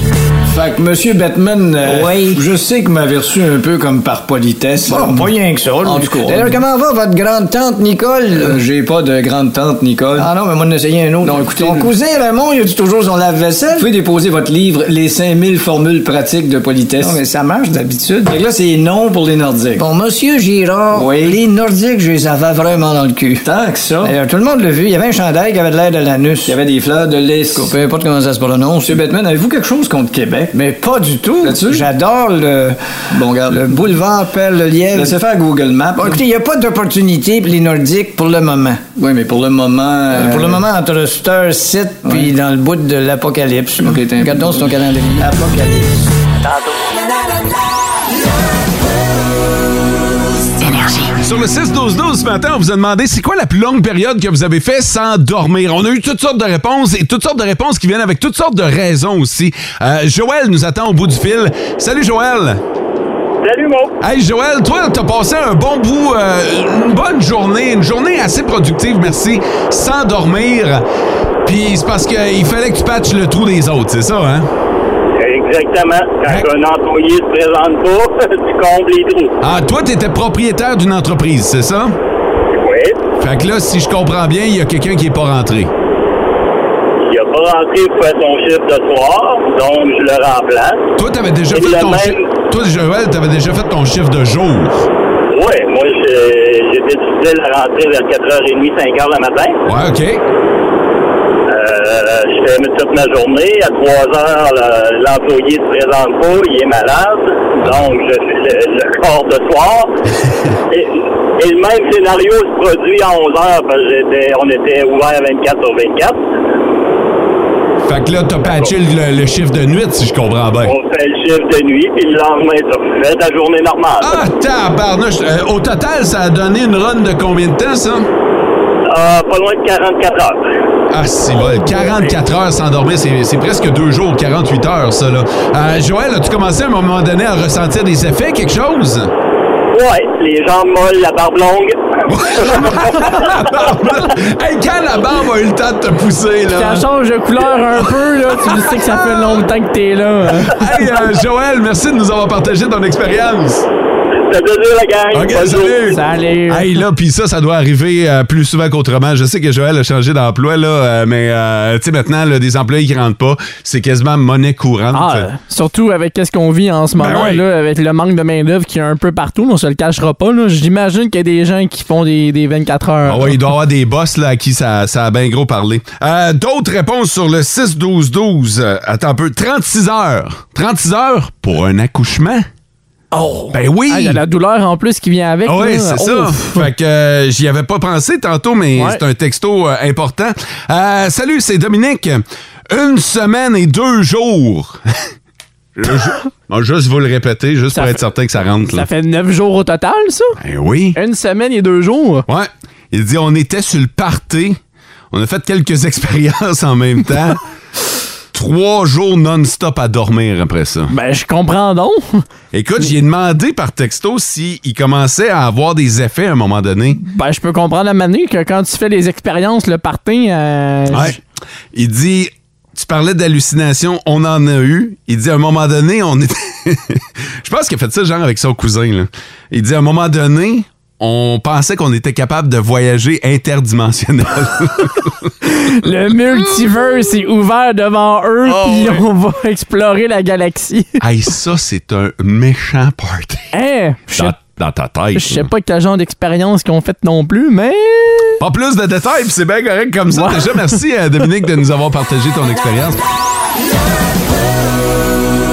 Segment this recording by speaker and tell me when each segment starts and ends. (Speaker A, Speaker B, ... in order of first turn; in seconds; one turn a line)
Speaker A: 0.5-6.6
Speaker B: 1.8-2.4
Speaker B: 4.8-8.6
Speaker A: 8.3-10.3
Speaker B: 10.2-13.9
Speaker A: 11.2-11.9
Speaker A: 13.3-17.2
Speaker B: 17.0-18.3
Speaker A: 18.2-19.8
Speaker B: 19.8-23.4
Speaker A: 20.9-21.4
Speaker A: 23.4-24.2
Speaker B: 24.0-26.6
Speaker A: 26.4-27.8
Speaker B: 27.6-29.0
Speaker A: 28.8-30.6
Speaker B: 30.6-35.2
Speaker A: 31.2-31.9
Speaker A: 33.1-34.0
Speaker A: 34.9-36.2
Speaker B: 35.9-38.9
Speaker A: 39.0-40.6
Speaker B: 40.1-45.9
Speaker A: 42.0-42.3
Speaker A: 43.8-45.4
Speaker C: 51.2-62.6
Speaker D: 63.4-63.9
Speaker C: 64.0-70.8
Speaker C: 71.4-74.5
Speaker D: 75.2-79.3
Speaker C: 79.4-82.0
Speaker D: 82.5-83.0
Speaker C: 83.2-85.7
Speaker D: 87.0-90.8
Speaker C: 91.0-94.9
Speaker D: 91.5-92.3
Speaker D: 95.3-99.5
Speaker C: 99.7-100.2
Speaker D: 101.5-109.9
Speaker D: 110.7-116.2
Speaker C: 117.8-120.7
Speaker D: 120.6-124.2
Speaker C: 124.0-128.1
Speaker D: 128.9-130.4
Speaker C: 130.9-139.1
Speaker D: 139.7-141.8
Speaker C: 142.1-146.9
Speaker D: 142.3-143.4
Speaker E: 146.5-150.7
Speaker C: 148.4-149.4
Speaker C: 150.4-153.7
Speaker D: 154.3-155.9
Speaker C: 155.1-165.3
Speaker E: 155.9-156.7
Speaker E: 164.9-173.4
Speaker C: 167.0-167.4
Speaker C: 173.1-182.5
Speaker E: 183.1-186.7
Speaker C: 183.5-184.2
Speaker C: 185.4-194.9
Speaker E: 188.8-189.0
Speaker C: 195.8-198.9
Speaker E: 197.7-198.0
Speaker E: 198.7-200.4
Speaker C: 200.4-201.0
Speaker E: 200.9-202.2
Speaker C: 202.3-204.6
Speaker C: 205.1-207.4
Speaker C: 208.3-210.9
Speaker E: 210.9-212.2
Speaker C: 212.5-217.0
Speaker E: 217.0-221.2
Speaker C: 220.9-221.2
Speaker C: 221.7-235.3
Speaker E: 235.4-241.0
Speaker C: 236.4-236.6
Speaker C: 238.4-239.1
Speaker C: 241.0-243.5
Speaker E: 243.5-244.4
Speaker C: 244.1-245.5
Speaker E: 245.1-248.4
Speaker C: 248.4-253.0
Speaker E: 250.1-250.8